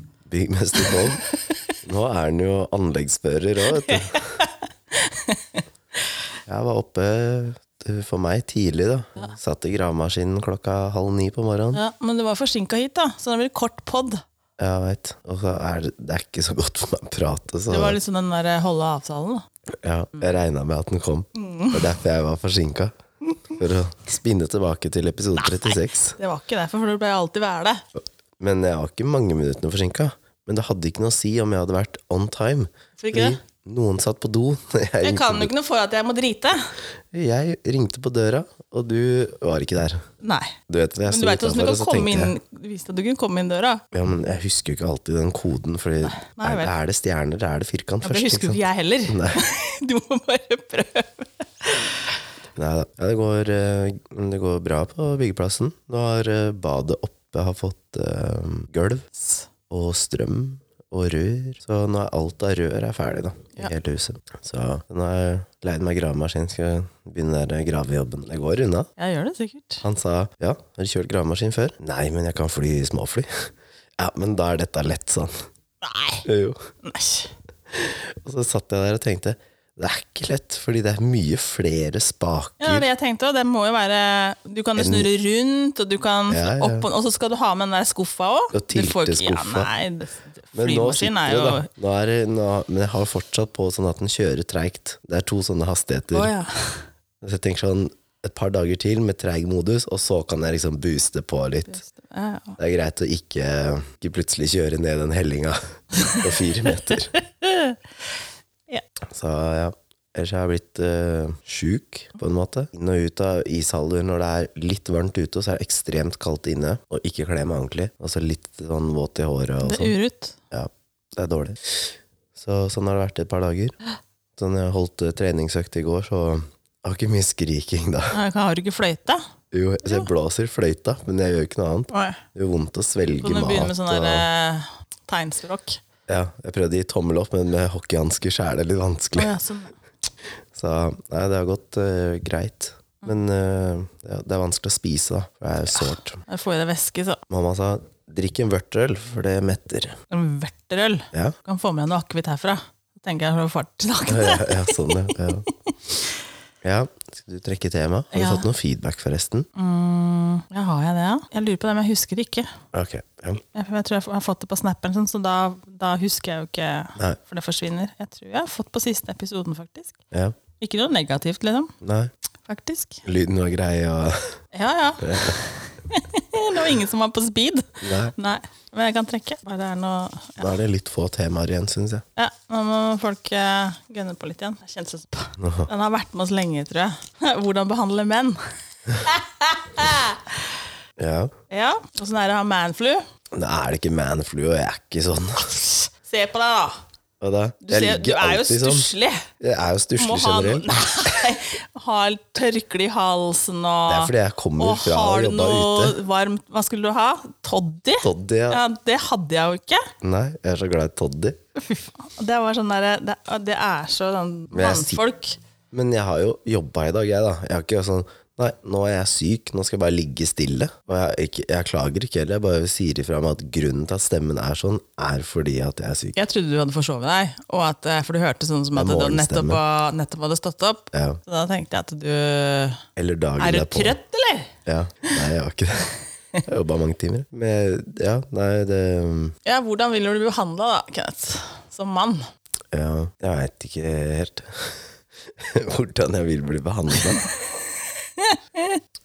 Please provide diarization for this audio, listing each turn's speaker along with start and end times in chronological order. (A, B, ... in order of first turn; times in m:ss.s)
0:00.3-0:01.2 A
0:00.8-0:01.3 B
0:01.8-0:04.2 A
0:03.7-0:05.6 B
0:06.5-0:11.8 A
0:11.7-0:14.2 B
0:14.6-0:18.0 A
0:17.7-0:19.4 B
0:19.7-0:22.9 A
0:21.3-0:21.9 B
0:23.5-0:26.2 A
0:25.7-0:27.8 B
0:28.4-0:35.5 A
0:33.0-0:33.4 B
0:35.0-0:36.7 B
0:37.1-0:40.0 A
0:40.2-0:43.8 B
0:40.7-0:42.3 A
0:43.9-0:49.4 A
0:46.1-0:46.7 B
0:48.0-0:52.1 B
0:52.6-0:59.1 A
0:59.7-1:08.9 A
1:09.0-1:09.8 B
1:09.8-1:15.4 A
1:15.8-1:16.2 B
1:16.2-1:16.6 A
1:16.8-1:17.3 B
1:17.7-1:22.9 A
1:22.6-1:31.7 B
1:24.8-1:25.1 A
1:26.3-1:26.8 A
1:28.5-1:29.7 A
1:30.5-1:36.3 A
1:36.1-1:36.9 B
1:37.2-1:41.8 A
1:41.7-1:42.6 B
1:42.6-1:47.1 A
1:47.2-1:47.8 B
1:49.1-2:00.0 A
1:59.6-2:00.4 B
2:00.5-2:03.7 A
2:04.4-2:08.2 A
2:08.1-2:09.2 B
2:09.5-2:14.3 A
2:11.9-2:12.2 B
2:13.2-2:15.8 B
2:16.1-2:19.3 A
2:19.1-2:19.7 B
2:20.5-2:26.2 A
2:25.7-2:27.2 B
2:27.3-2:30.0 A
2:30.1-2:35.7 B
2:34.1-2:35.5 A
2:36.6-2:39.5 A
2:38.1-2:38.5 B
2:39.5-2:42.5 B
2:42.7-2:43.4 A
2:43.5-2:50.0 B
2:50.6-2:51.7 B
2:51.8-2:52.1 A
2:52.5-2:53.0 B
2:53.0-2:54.3 A
2:54.5-3:00.5 B
2:55.0-2:55.4 A
2:57.8-2:58.1 A
3:00.4-3:02.0 A
3:02.2-3:10.4 B
3:05.4-3:05.7 A
3:11.0-3:11.3 A
3:11.5-3:13.0 B
3:13.3-3:15.6 A
3:15.5-3:16.8 B
3:17.2-3:18.8 A
3:17.6-3:19.3 B
3:19.4-3:21.2 A
3:20.0-3:29.9 B
3:23.9-3:26.0 A
3:28.0-3:28.6 A
3:30.0-3:31.4 A
3:31.6-3:35.4 B
3:34.5-3:35.0 A
3:35.7-3:46.2 A
3:46.2-3:52.8 B
3:48.7-3:49.6 A
3:50.9-3:51.2 A
3:53.0-3:54.0 A
3:53.4-3:54.5 B
3:54.6-3:55.9 A
3:56.4-3:59.3 A
3:59.4-4:02.2 B
4:02.7-4:04.8 A
4:05.4-4:07.3 A
4:08.2-4:08.8 B